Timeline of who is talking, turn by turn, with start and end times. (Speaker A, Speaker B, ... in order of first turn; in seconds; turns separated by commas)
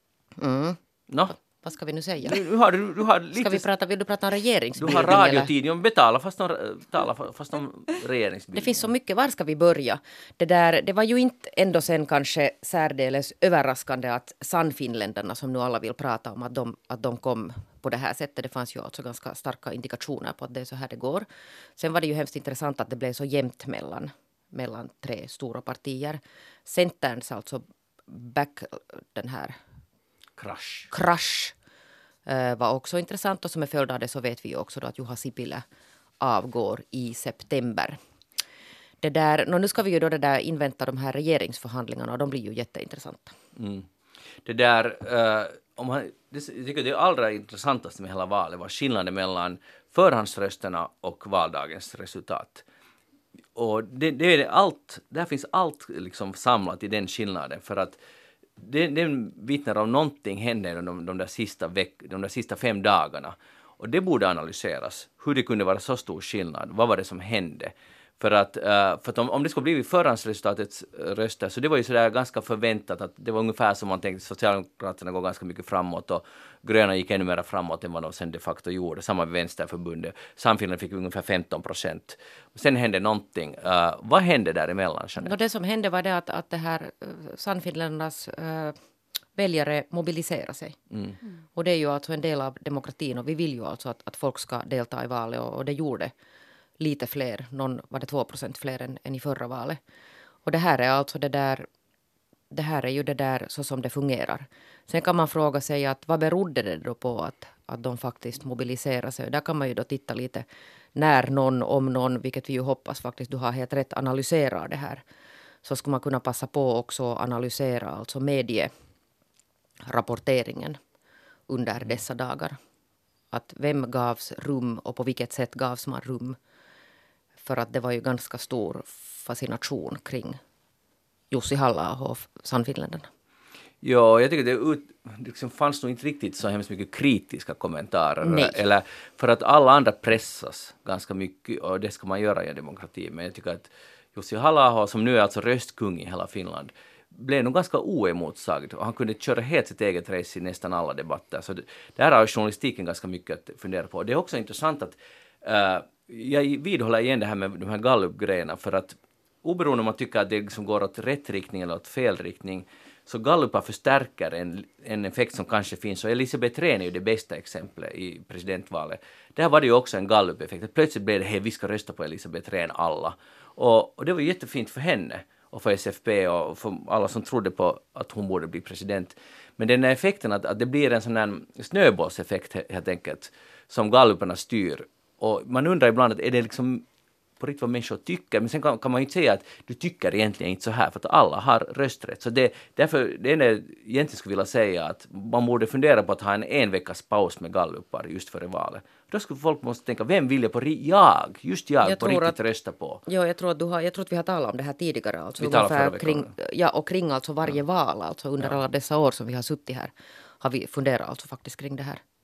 Speaker A: 0.4-2.4, Speaker B: 2.2-3.6, Speaker A: 3.4-5.5, Speaker B: 4.8-8.8, Speaker A: 8.5-21.2, Speaker A: 21.8-29.6, Speaker B: 30.4-30.9, Speaker A: 30.9-31.5, Speaker A: 32.2-35.6, Speaker A: 36.2-38.0, Speaker A: 39.0-43.4, Speaker B: 43.5-43.9, Speaker B: 44.4-52.6, Speaker B: 53.5-58.0, Speaker B: 58.6-85.3, Speaker A: 85.2-88.7, Speaker A: 89.3-90.8, Speaker A: 91.5-96.1, Speaker A: 96.8-99.8, Speaker A: 100.5-101.7, Speaker A: 102.5-115.0, Speaker A: 115.6-118.7, Speaker A: 119.9-120.8, Speaker A: 121.5-122.6, Speaker A: 123.3-126.4, Speaker A: 127.4-130.4, Speaker A: 131.3-133.1, Speaker B: 133.8-186.8, Speaker A: 138.2-138.5, Speaker B: 187.4-203.0, Speaker A: 201.8-202.4, Speaker A: 203.1-212.0, Speaker B: 205.4-206.3